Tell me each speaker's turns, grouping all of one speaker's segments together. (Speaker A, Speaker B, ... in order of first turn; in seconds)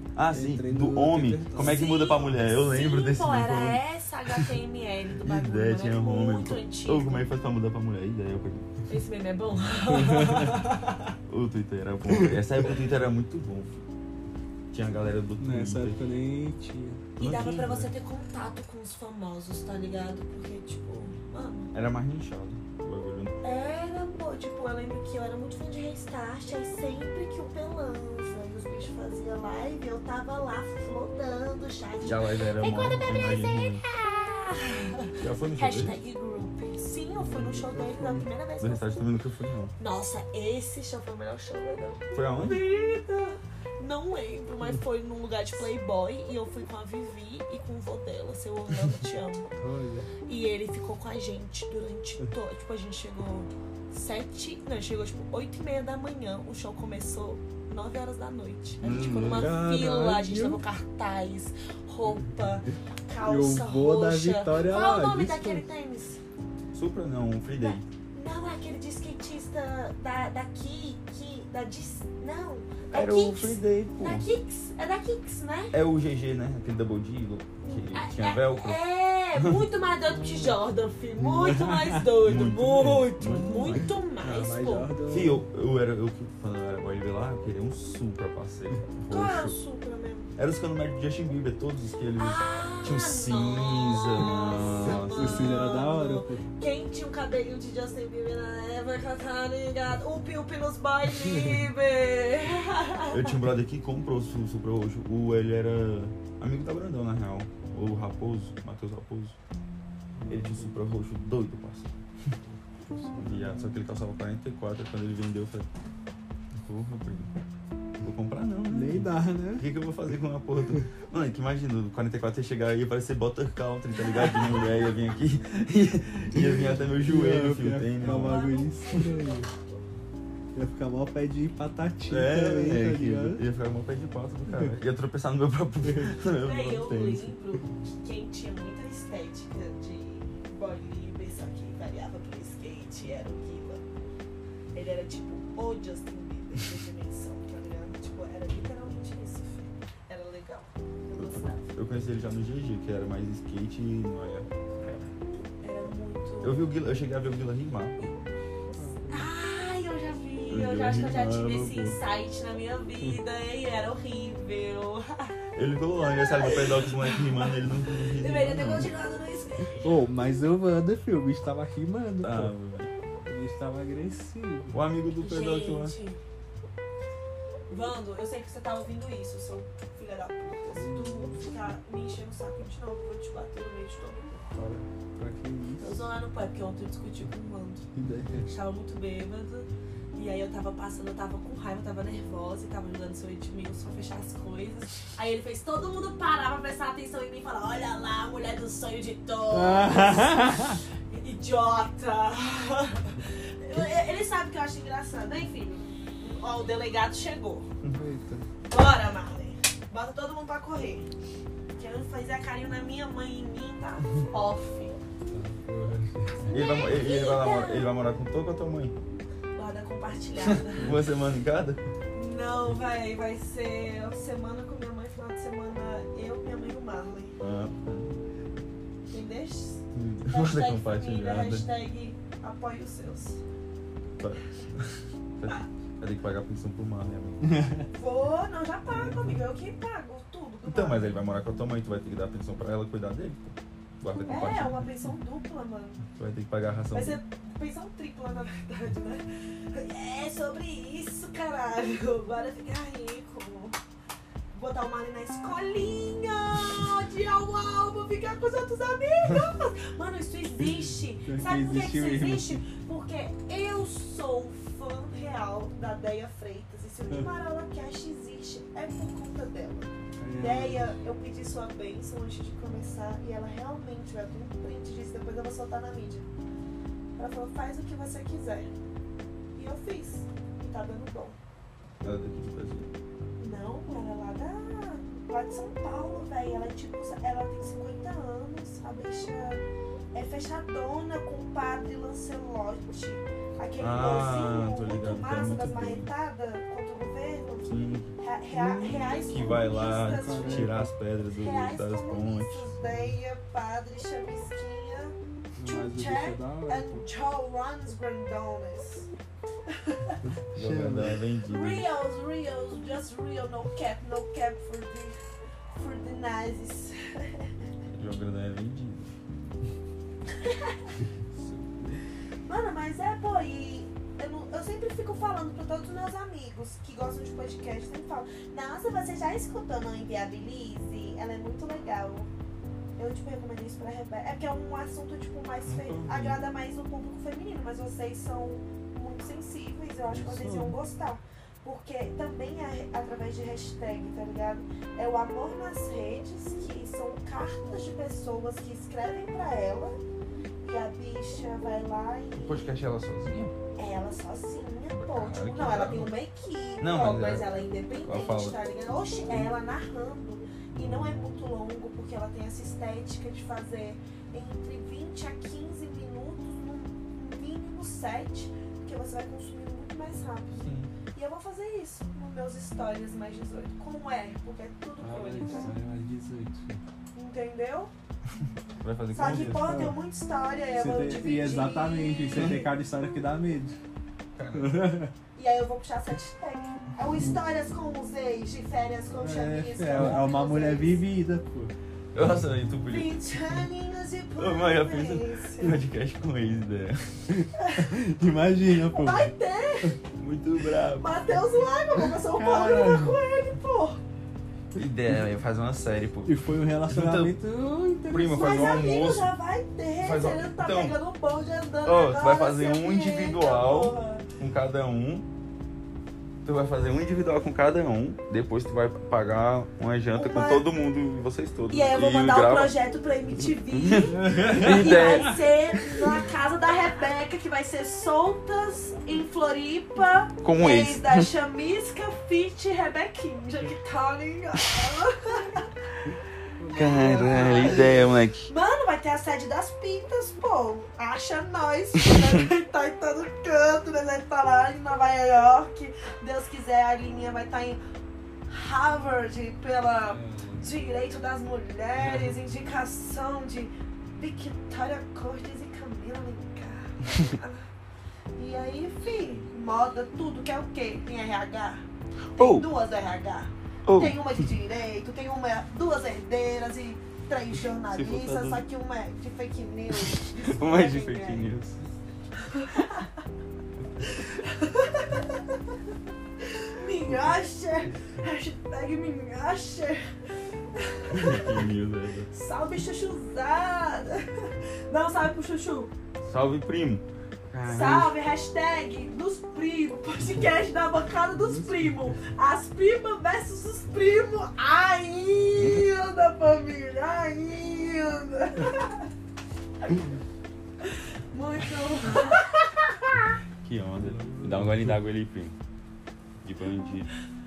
Speaker A: 0.2-4.5, 5.2-8.7, 11.3-13.8, 14.7-16.0, 17.2-17.9, 21.7-23.4, 32.0-33.8, 35.2-36.0, 38.6-39.7, 42.1-42.6, 58.8-59.6, 66.7-67.9, 72.9-74.3, 75.7-78.8, 82.2-83.9, 85.1-89.6, 90.4-95.5, 103.1-109.4, 110.3-111.9, 113.2-115.7, 116.6-117.3, 118.0-128.5, 132.1-137.3, 151.2-154.5, 156.4-158.0, 160.5-161.9, 165.6-168.9, 172.2-172.9, 174.7-176.0, 184.6-184.8, 216.5-218.9, 220.8-221.8, 227.4-228.1, 229.9-231.7, 234.2-237.6, 240.7-244.9, 246.1-247.2, 282.0-282.9, 293.8-296.1, 297.7-298.1, 299.3-303.1, 310.5-311.9, 317.9-319.2, 335.6-336.4, 352.4-353.6, 354.9-356.1, 356.8-357.5, 358.0-358.6, 370.6-370.9, 378.8-379.8, 384.4-384.9, 392.1-393.2, 394.4-397.4, 400.2-401.2, 404.8-407.4, 408.1-409.3, 410.0-411.0, 411.9-415.3, 416.4-422.8, 423.7-425.4, 430.4-431.3, 436.7-438.5, 462.4-462.7, 463.9-464.3, 467.9-468.6, 470.3-471.9, 481.1-482.3, 486.3-488.1, 495.6-495.8, 503.6-505.6, 506.4-507.1
Speaker B: 0.3-1.9, 9.9-10.6, 12.1-12.4, 15.4-17.1, 37.2-38.3, 49.6-50.1, 59.2-60.6, 63.2-65.7, 80.1-80.6, 81.2-82.1, 83.3-85.4, 94.8-96.4, 110.2-110.7, 112.7-113.7, 118.7-119.7, 126.6-129.5, 130.5-133.4, 134.5-134.7, 135.8-136.2, 158.7-159.3, 169.8-172.5, 173.2-174.8, 180.8-181.4, 185.2-186.1, 187.9-188.5, 199.5-200.8, 207.9-208.5, 215.3-216.5, 220.8-221.0, 237.5-237.9, 238.9-239.5, 260.6-262.6, 270.2-270.9, 298.5-300.9, 305.6-307.1, 310.5-311.2, 321.4-322.0, 340.1-340.8, 360.7-361.3, 375.0-376.8, 379.3-380.0, 380.7-383.8, 384.5-385.1, 389.2-391.7, 397.3-399.3, 402.3-403.2, 406.2-408.8, 424.2-425.4, 436.6-438.1, 450.1-450.6, 452.0-452.3, 491.3-492.1, 504.0-505.0
Speaker C: 1.6-7.3, 8.9-10.9, 17.2-21.7, 23.4-39.1, 39.8-49.5, 50.3-66.2, 67.5-75.8, 77.7-85.0, 89.1-90.3, 92.2-103.3, 128.0-129.3, 136.4-143.8, 144.7-151.7, 155.6-156.6, 159.1-165.3, 166.0-170.0, 175.2-176.2, 177.7-184.5, 185.8-187.9, 188.4-207.7, 208.6-211.1, 211.8-215.0, 216.5-217.9, 219.6-221.0, 222.1-227.4, 229.1-233.4, 237.9-241.2, 244.3-246.1, 246.9-253.8, 254.5-276.3, 277.2-278.7, 279.6-281.4, 283.4-300.8, 301.3-309.1, 309.7-310.2, 311.4-315.2, 315.7-317.5, 320.4-320.9, 322.4-332.3, 333.0-350.0, 350.6-352.8, 353.8-375.8, 377.1-377.9, 379.1-382.7, 385.4-391.0, 392.9-395.8, 397.6-397.9, 398.9-400.0, 401.0-404.0, 408.3-414.3, 420.1-420.7, 421.7-435.7, 436.9-447.8, 448.5-457.7, 458.4-461.9, 462.4-471.5, 472.4-473.2, 474.0-475.6, 476.4-480.0, 480.8-481.6, 482.3-485.9, 487.6-499.1, 500.8-503.2